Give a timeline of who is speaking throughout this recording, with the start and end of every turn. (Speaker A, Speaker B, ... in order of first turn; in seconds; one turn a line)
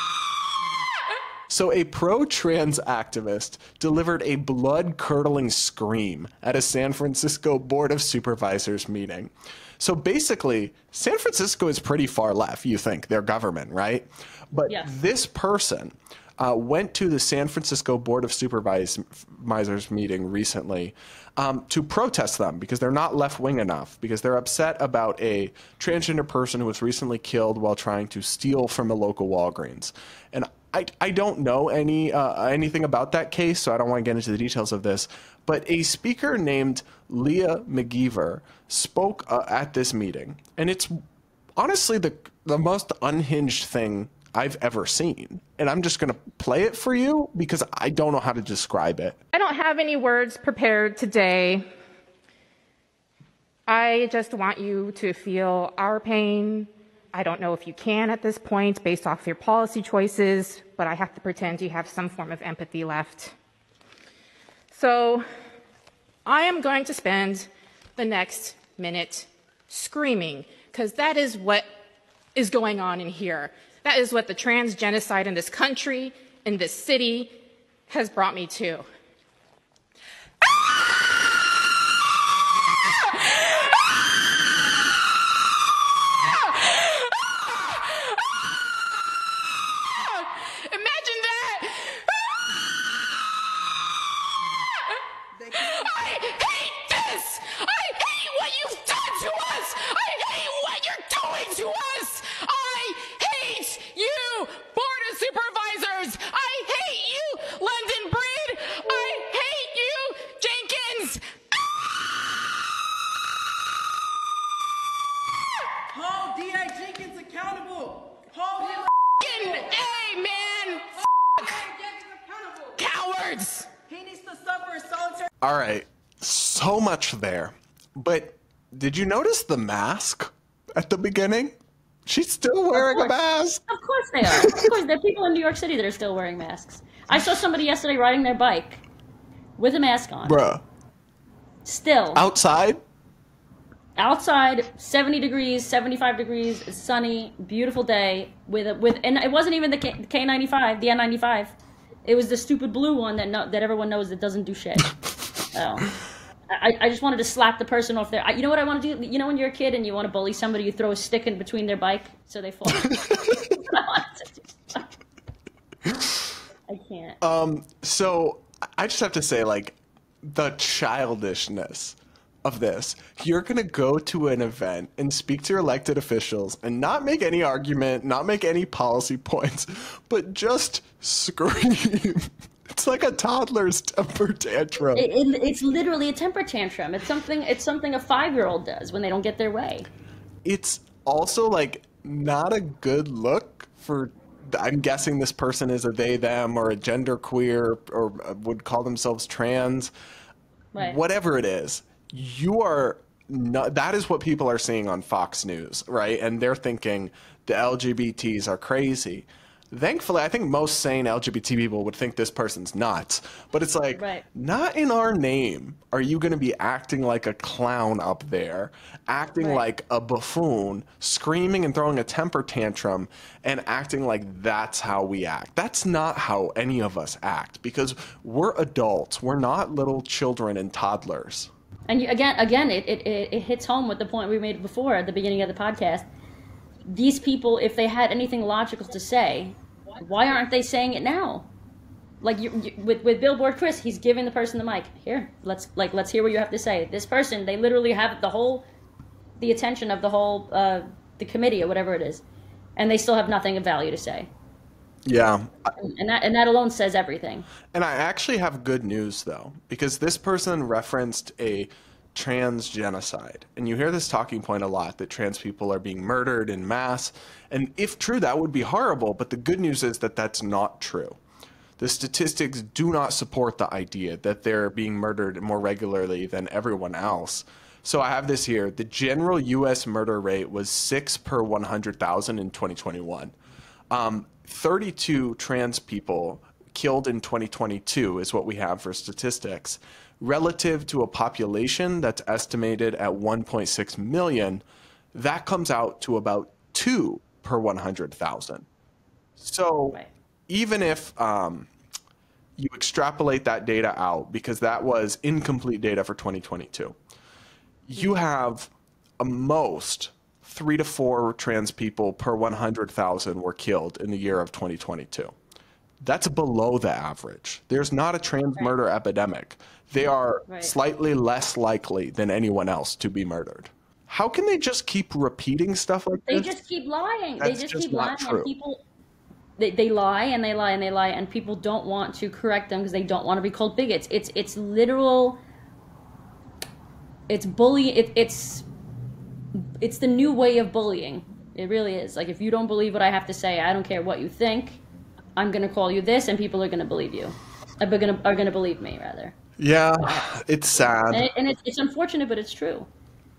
Speaker A: 1.5-41.0
Speaker A: 41.6-49.2
Speaker B: 49.3-51.6
Speaker B: 53.7-63.3
Speaker B: 64.7-65.2
Speaker B: 66.2-71.7
Speaker B: 72.3-77.3
Speaker B: 77.9-78.8
Speaker B: 90.1-92.1
Speaker B: 95.4-111.2
Speaker B: 116.5-117.8
Speaker B: 118.4-121.7
Speaker B: 122.8-123.7
Speaker A: 125.4-131.5
Speaker A: 132.1-133.6
Speaker C: 132.7-133.1
Speaker C: 133.7-138.8
Speaker A: 134.2-134.7
Speaker C: 139.6-140.4
Speaker A: 140.2-140.6
Speaker C: 141.6-142.2
Speaker A: 142.1-142.8
Speaker C: 143.9-154.9
Speaker C: 155.5-155.9
Speaker C: 156.5-164.8
Speaker A: 162.8-163.2
Speaker C: 166.7-167.2
Speaker A: 167.2-185.1
Speaker C: 184.9-189.9
Speaker A: 190.4-199.9
Speaker C: 200.7-201.0
Speaker A: 200.8-231.5
Speaker C: 213.9-214.2
Speaker C: 219.4-219.6
Speaker C: 231.9-236.1
Speaker C: 236.8-241.5
Speaker C: 242.2-248.6
Speaker C: 249.4-252.2
Speaker C: 252.8-254.3
Speaker A: 255.1-255.5
Speaker C: 255.8-257.5
Speaker A: 257.7-271.2
Speaker A: 271.8-283.3
Speaker A: 283.9-294.6
Speaker A: 295.1-298.6
Speaker A: 299.4-301.7
Speaker A: 302.6-306.9
Speaker A: 307.9-315.3
Speaker A: 316.0-326.5
Speaker C: 320.5-320.8
Speaker C: 326.3-328.8
Speaker A: 327.4-328.5
Speaker C: 329.6-335.4
Speaker C: 337.3-338.6
Speaker C: 339.8-344.8
Speaker C: 345.4-349.3
Speaker A: 349.6-351.2
Speaker C: 351.1-352.9